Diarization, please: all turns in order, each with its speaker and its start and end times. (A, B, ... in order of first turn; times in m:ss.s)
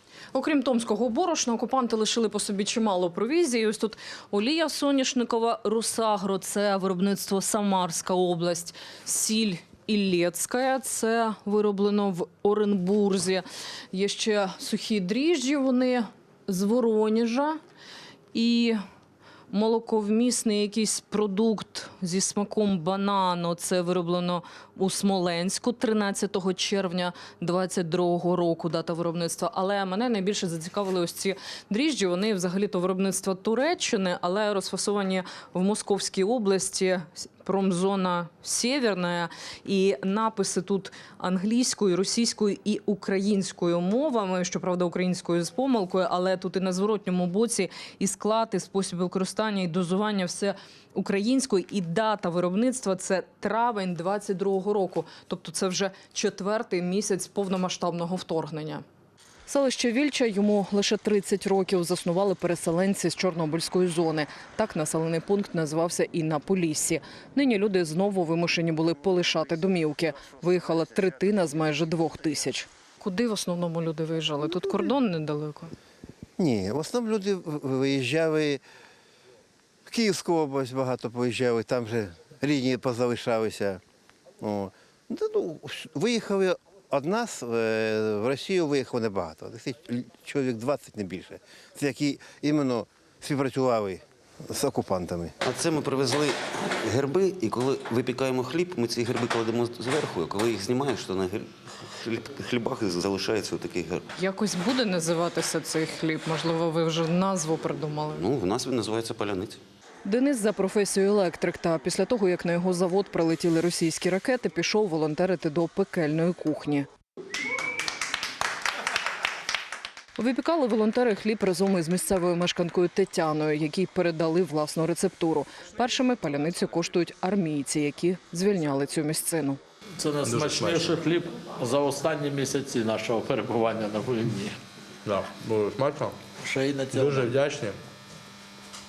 0:00.3-0:17.6 A
0:18.3-0:18.8 A
0:19.5-0:58.8 A
0:59.5-1:15.7 A
1:16.4-1:18.6 B
1:19.9-1:23.8 B
1:24.4-1:35.4 B
1:35.4-1:44.0 C
1:44.2-1:48.2 A
1:48.1-1:49.6 C
1:50.0-1:56.9 A
2:00.2-2:09.6 A
2:10.0-2:14.6 D
2:10.2-2:10.9 E
2:15.0-2:16.2 E
2:16.4-2:17.3 D
2:16.9-2:17.8 E